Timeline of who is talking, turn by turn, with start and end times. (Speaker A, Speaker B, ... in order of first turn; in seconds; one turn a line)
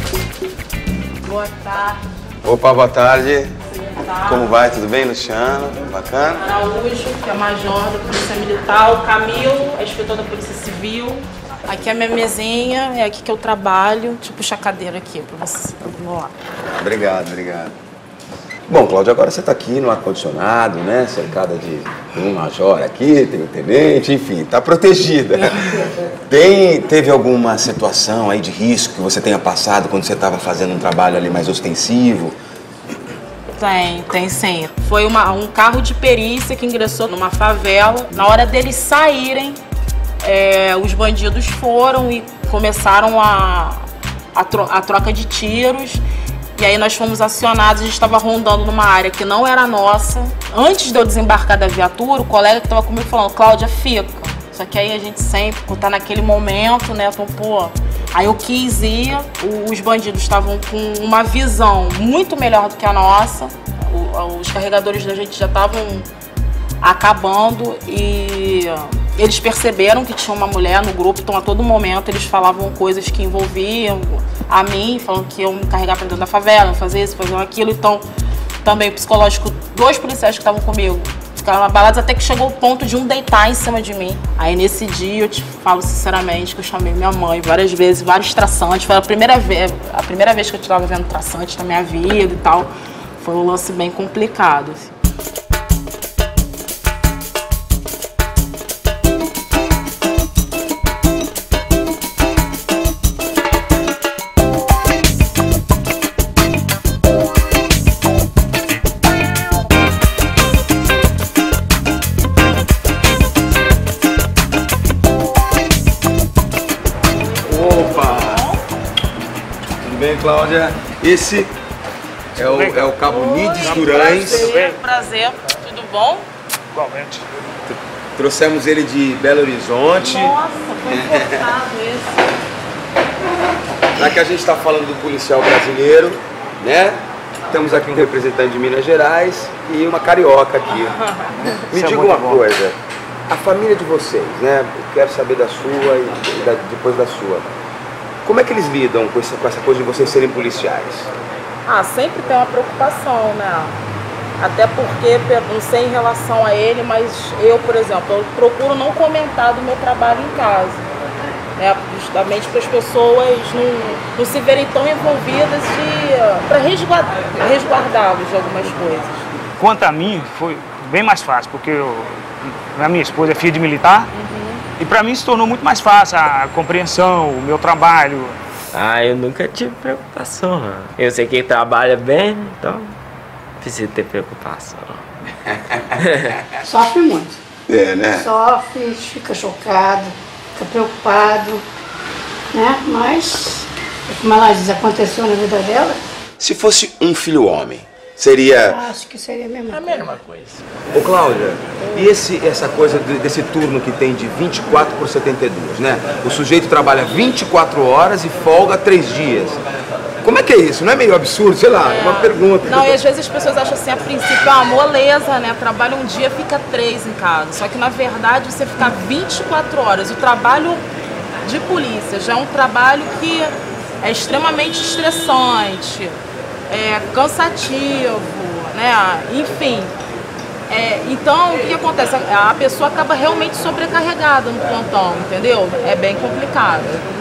Speaker A: 1.2-2.0
Speaker B: 2.4-3.5
Speaker A: 3.7-4.5
Speaker B: 4.3-6.4
Speaker A: 6.4-16.3
Speaker B: 16.8-17.7
Speaker B: 18.7-32.4
Speaker A: 33.6-39.6
Speaker A: 40.2-46.0
Speaker A: 46.6-66.1
Speaker A: 66.8-78.1
Speaker A: 78.6-94.9
Speaker A: 117.1-118.6
Speaker B: 117.5-118.5
Speaker B: 119.8-121.5
Speaker B: 122.4-124.5
Speaker C: 122.4-123.0
Speaker A: 123.1-126.3
Speaker C: 123.6-124.8
Speaker C: 126.7-127.2
Speaker B: 127.7-130.3
Speaker A: 130.0-132.2
Speaker B: 130.9-131.5
Speaker B: 134.0-141.0
Speaker B: 141.7-142.8
Speaker C: 141.7-142.4
Speaker B: 143.3-147.5
Speaker B: 148.2-151.1
Speaker A: 151.7-153.8
Speaker A: 154.4-160.8
Speaker A: 161.6-169.1
Speaker C: 169.6-174.1
Speaker A: 174.1-174.6
Speaker C: 174.8-178.4
Speaker D: 178.7-182.9
Speaker D: 183.6-185.1
Speaker D: 186.0-186.3
Speaker E: 186.6-187.4
Speaker B: 187.7-188.3
Speaker E: 188.1-191.6
Speaker E: 192.5-196.0
Speaker B: 196.4-198.8
Speaker E: 198.7-200.2
Speaker B: 200.9-209.6
Speaker B: 210.2-212.9
Speaker A: 211.8-220.8
Speaker A: 221.4-229.9
Speaker A: 230.7-237.0